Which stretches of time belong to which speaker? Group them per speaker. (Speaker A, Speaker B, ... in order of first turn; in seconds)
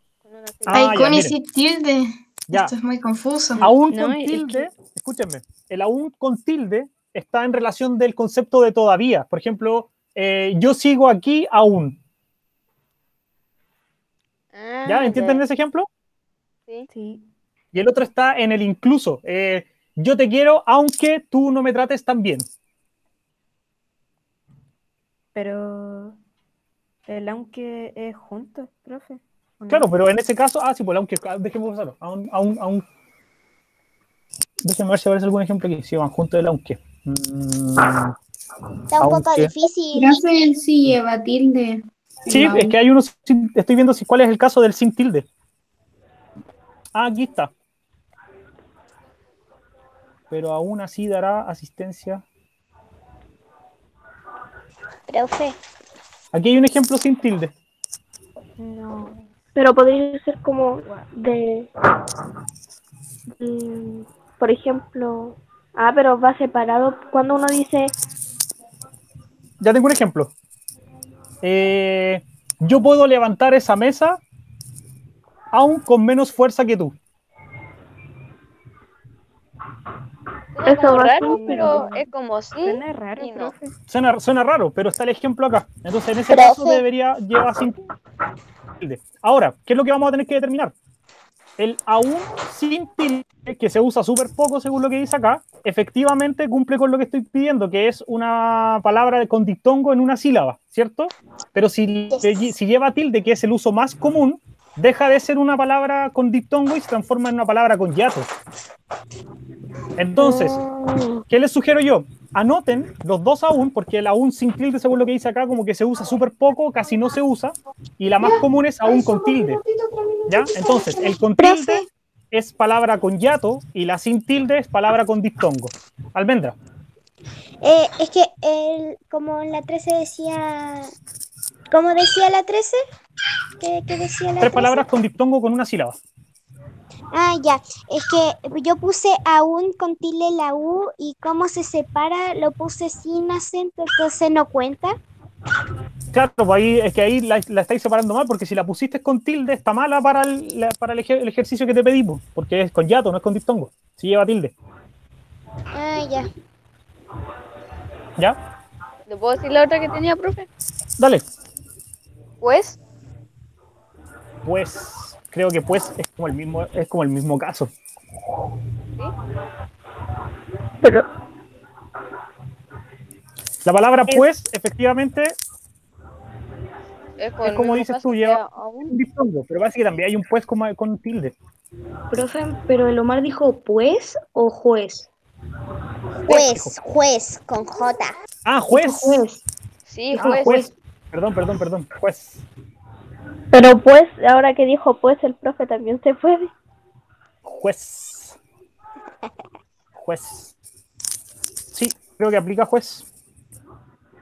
Speaker A: 0.2-1.0, 14.5-15.4, 80.5-83.5, 159.1-160.5, 162.4-162.8, 177.2-178.9, 189.8-190.5
Speaker B: 0.7-1.4, 3.6-12.0, 14.8-15.9, 17.7-22.4, 29.7-32.8, 34.6-38.1, 39.0-39.5, 42.3-45.2, 46.9-47.5, 50.3-52.2, 56.3-57.5, 69.6-70.3, 71.4-74.2, 75.5-77.0, 83.9-87.8, 88.8-90.7, 91.6-108.3, 110.0-110.6, 111.3-119.6, 120.3-126.6, 134.4-136.0, 146.1-154.5, 164.4-167.7, 173.6-175.3, 177.4-181.3, 186.2-186.7, 188.4-189.2, 190.1-192.4, 197.4-198.4, 199.9-200.5, 201.7-203.1
Speaker C: 0.7-3.7, 39.9-42.7, 118.2-121.2
Speaker D: 3.8-4.7, 16.9-17.2, 25.3-26.2, 27.1-29.9, 58.6-59.2, 60.8-61.1, 81.2-82.1, 82.6-83.7
Speaker E: 38.9-40.2, 55.1-55.5, 86.3-86.8, 102.1-102.5, 110.2-111.1, 121.4-121.8, 127.6-130.9, 131.7-132.8, 133.6-134.8, 137.1-145.0, 155.7-156.3, 186.3-188.1
Speaker F: 59.5-61.7, 63.3-67.9, 80.6-81.4, 193.5-196.5
Speaker G: 182.1-185.1, 188.7-189.4, 190.1-190.7